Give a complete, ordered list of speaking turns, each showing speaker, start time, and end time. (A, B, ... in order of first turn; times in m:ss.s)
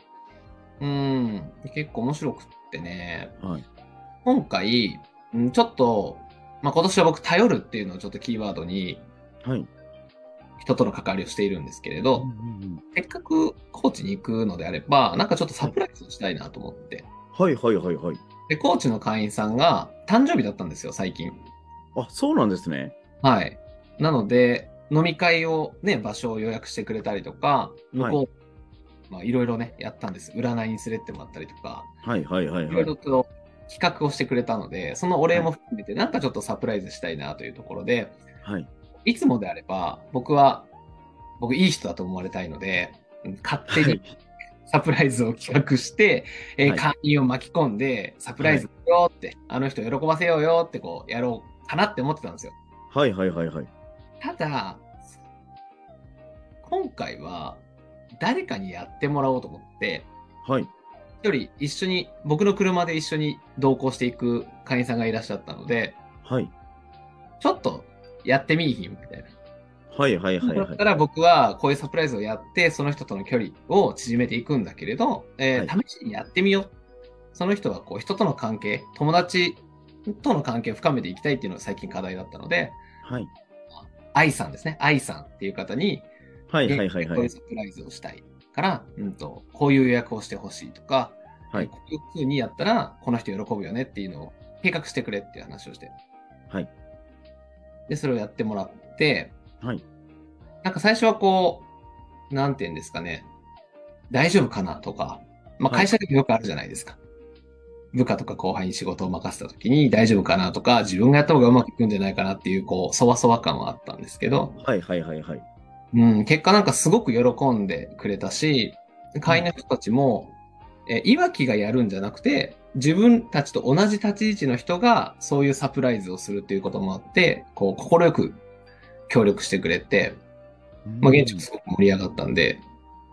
0:00.8-0:03.4 A
0:03.4-0:03.6 B
0:04.2-0:09.1 A
0:09.4-0:09.7 B
0:10.6-0:12.3 A
0:12.2-0:12.8 B
0:12.9-0:17.1 A
0:17.3-0:18.2 B
0:18.5-0:21.4 A
0:22.0-0:23.0 B
0:23.2-0:28.3 A
0:28.0-0:28.2 B
0:29.1-0:31.9 A
0:32.0-0:32.9 B
0:32.7-0:38.2 A
0:39.0-0:40.7 A
0:41.4-0:44.0 A
0:43.7-0:44.1 B
0:44.7-0:52.6 A
0:48.4-0:48.7 B
0:52.9-0:53.7 B
0:54.2-0:54.9 A
0:56.6-0:57.6 A
0:58.2-1:00.1 A
1:00.4-1:00.7 B
1:01.2-1:06.0 A
1:06.2-1:06.5 B
1:07.4-1:09.3 A
1:09.9-1:10.8 B
1:10.4-1:16.7 A
1:17.3-1:22.8 A
1:23.0-1:23.3 B
1:23.8-1:26.1 A
1:26.5-1:27.3 B
1:26.6-1:36.0 A
1:37.9-1:39.3 A
1:40.6-1:41.7 A
1:42.3-1:43.3 A
1:44.1-1:47.0 A
1:47.9-1:54.6 A
1:54.6-1:55.4 B
1:55.9-2:08.4 A
2:09.1-2:10.2 A
2:10.8-2:11.5 B
2:11.0-2:12.6 A